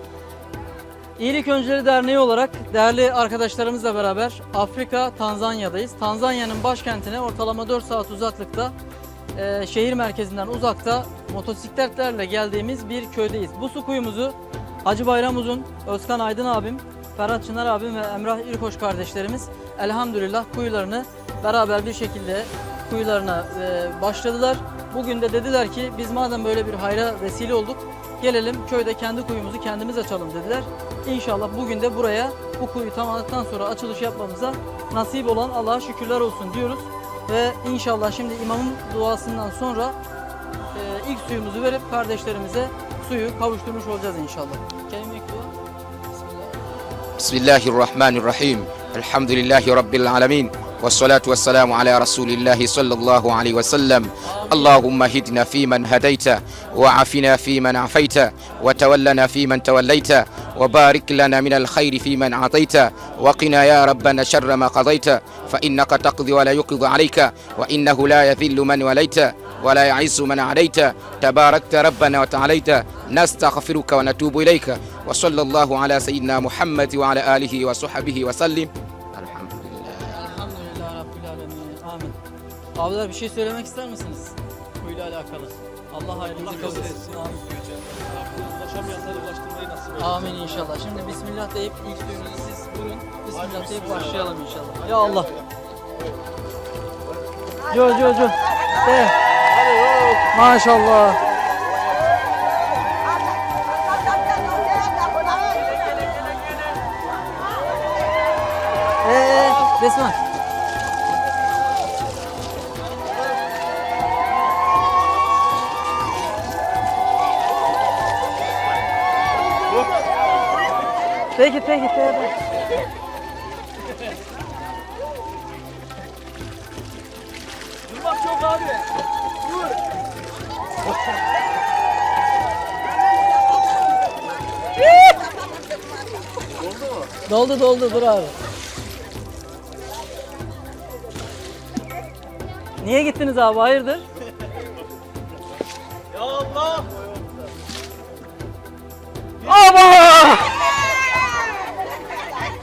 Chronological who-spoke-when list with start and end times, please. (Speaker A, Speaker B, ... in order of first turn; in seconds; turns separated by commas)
Speaker A: 1.2-8.7, Speaker A: 9.3-40.0, Speaker A: 40.7-45.5, Speaker B: 47.2-80.1, Speaker A: 54.2-54.8, Speaker A: 80.1-82.2, Speaker A: 82.8-87.4, Speaker C: 88.1-90.0, Speaker A: 90.0-95.3, Speaker A: 97.7-99.1, Speaker A: 100.2-101.2, Speaker A: 109.0-110.2, Speaker A: 121.3-122.3, Speaker C: 127.9-128.8, Speaker A: 137.2-138.3, Speaker A: 142.8-144.1, Speaker C: 146.2-146.8, Speaker A: 149.4-150.6